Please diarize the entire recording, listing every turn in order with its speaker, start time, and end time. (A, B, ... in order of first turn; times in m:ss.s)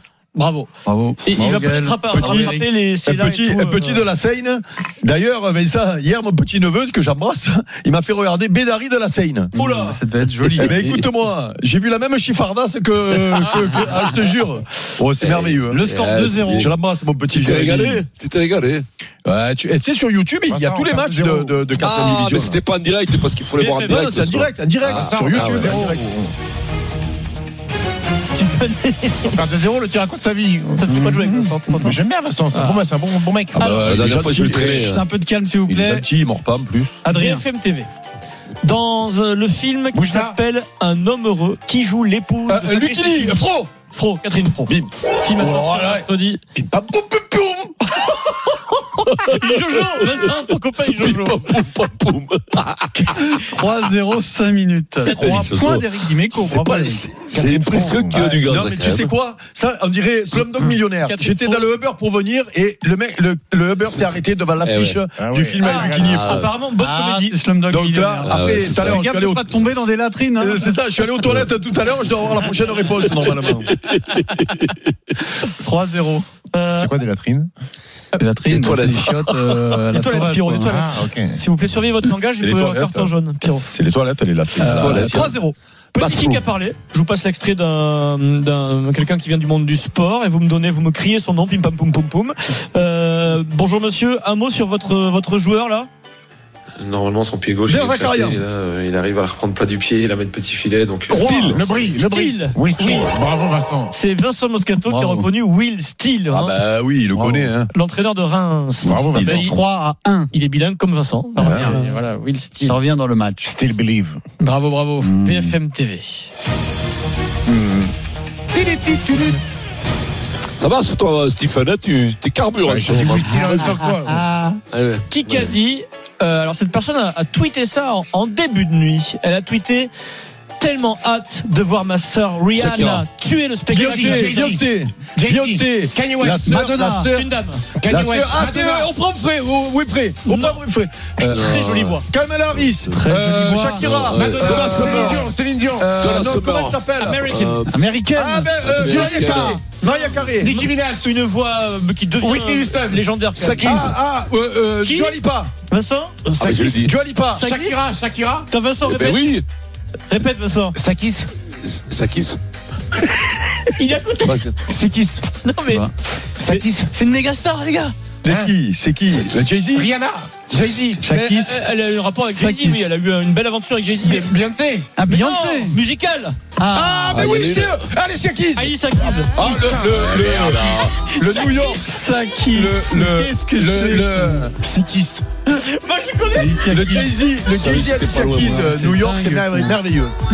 0:00.4-0:00.7 A
0:00.8-0:02.6 B
0:01.2-0:04.1 A
0:02.1-0:02.5 C
0:03.0-0:09.5 C
0:09.5-0:10.8 B
0:09.6-0:10.0 A
0:10.5-0:11.1 D
0:10.6-0:15.8 C
0:15.2-0:16.7 D
0:15.7-0:16.7 B
0:16.5-0:18.0 C
0:17.3-0:18.9 D
0:19.2-0:22.6 C
0:20.5-0:21.7 E
0:21.8-0:25.8 D
0:23.6-0:24.1 A
0:23.8-0:26.1 C
0:24.8-0:26.3 E
0:28.2-0:29.4 A
0:29.2-0:33.7 E
0:30.8-0:32.0 A
0:30.9-0:31.3 B
0:32.5-0:32.8 A
0:33.6-0:33.9 A
0:33.6-0:35.0 C
0:33.8-0:35.0 D
0:34.7-0:36.1 B
0:35.7-0:37.0 C
0:37.0-0:37.4 B
0:37.1-0:37.9 A
0:38.6-0:46.4 A
0:39.9-0:40.4 E
0:42.5-0:43.7 C
0:44.7-0:47.9 C
0:49.1-0:51.6 A
0:50.0-0:53.2 D
0:53.1-0:57.1 B
0:55.0-0:59.1 D
0:55.1-0:55.6 A
0:57.3-0:58.3 E
0:58.1-1:06.3 C
1:01.0-1:01.7 A
1:03.8-1:05.0 D
1:05.1-1:06.2 E
1:05.6-1:07.4 A
1:06.0-1:06.5 D
1:06.8-1:10.8 B
1:07.7-1:09.6 C
1:08.3-1:09.0 D
1:10.4-1:13.7 C
1:11.2-1:11.5 D
1:14.1-1:14.7 D
1:15.4-1:16.3 B
1:16.5-1:16.9 A
1:16.8-1:17.5 E
1:18.2-1:20.7 B
1:18.5-1:19.1 D
1:19.3-1:23.7 A
1:20.6-1:21.4 E
1:22.4-1:23.1 C
1:23.7-1:25.4 C
1:24.6-1:25.6 B
1:24.7-1:25.3 D
1:26.0-1:35.9 A
1:26.0-1:26.4 D
1:36.8-1:41.2 F
1:37.7-1:38.4 C
1:41.1-1:41.7 D
1:41.2-1:43.2 A
1:41.4-1:43.9 E
1:43.9-1:46.6 A
1:44.9-1:45.3 B
1:46.3-1:47.7 C
1:47.1-1:47.5 E
1:47.7-1:49.6 A
1:48.8-1:49.5 E
1:49.1-1:49.5 C
1:49.2-1:50.3 B
1:50.3-1:52.8 A
1:51.4-1:51.9 B
1:52.7-1:53.5 B
1:53.4-1:54.2 E
1:54.4-1:56.3 A
1:55.0-1:55.6 B
1:57.5-1:57.9 E
1:58.5-1:59.4 E
2:00.6-2:03.8 D
2:02.7-2:04.3 E
2:03.4-2:04.6 B
2:04.7-2:05.5 D
2:05.1-2:09.9 A
2:10.6-2:14.4 A
2:12.5-2:13.0 D
2:13.7-2:17.1 C
2:13.7-2:18.9 E
2:16.7-2:17.1 B
2:17.0-2:17.6 A
2:17.8-2:27.2 C
2:20.2-2:20.7 A
2:21.2-2:23.0 D
2:21.2-2:22.1 A
2:22.9-2:24.1 B
2:23.8-2:25.1 D
2:24.1-2:26.0 E
2:26.0-2:27.8 D
2:27.0-2:27.6 A
2:27.7-2:29.6 B
2:28.1-2:30.6 C
2:28.6-2:29.6 D
2:29.8-2:33.9 A
2:30.4-2:31.0 E
2:32.2-2:33.0 E
2:33.4-2:34.0 D
2:33.6-2:35.5 C
2:34.8-2:36.8 A
2:36.4-2:36.9 D
2:36.8-2:37.5 C
2:37.3-2:37.8 A
2:37.3-2:38.5 E
2:38.5-2:39.4 A
2:38.8-2:39.4 D
2:40.1-2:40.8 A
2:40.7-2:41.3 E
2:41.6-2:42.4 D
2:43.8-2:44.5 A
2:44.2-2:44.6 D
2:44.6-2:45.2 E
2:45.4-2:48.0 A
2:46.4-2:46.9 E
2:48.2-2:49.9 C
2:48.3-2:48.5 E
2:49.7-2:51.0 E
2:51.0-2:51.6 B
2:51.1-2:54.4 A
2:52.3-2:52.9 B
2:54.0-2:54.9 E
2:55.0-2:55.8 B
2:55.1-2:56.4 A
2:56.6-2:57.3 B
2:56.7-2:58.7 C
2:57.1-2:57.8 D
2:58.6-2:59.4 A
2:59.4-3:01.9 C
2:59.4-3:00.0 E
2:59.8-3:00.9 D
3:01.0-3:01.8 A
3:01.8-3:04.5 B
3:02.5-3:04.5 C
3:04.5-3:05.2 E
3:05.5-3:06.7 A
3:06.3-3:07.2 B
3:06.7-3:10.1 C
3:07.5-3:08.7 D
3:08.4-3:09.8 B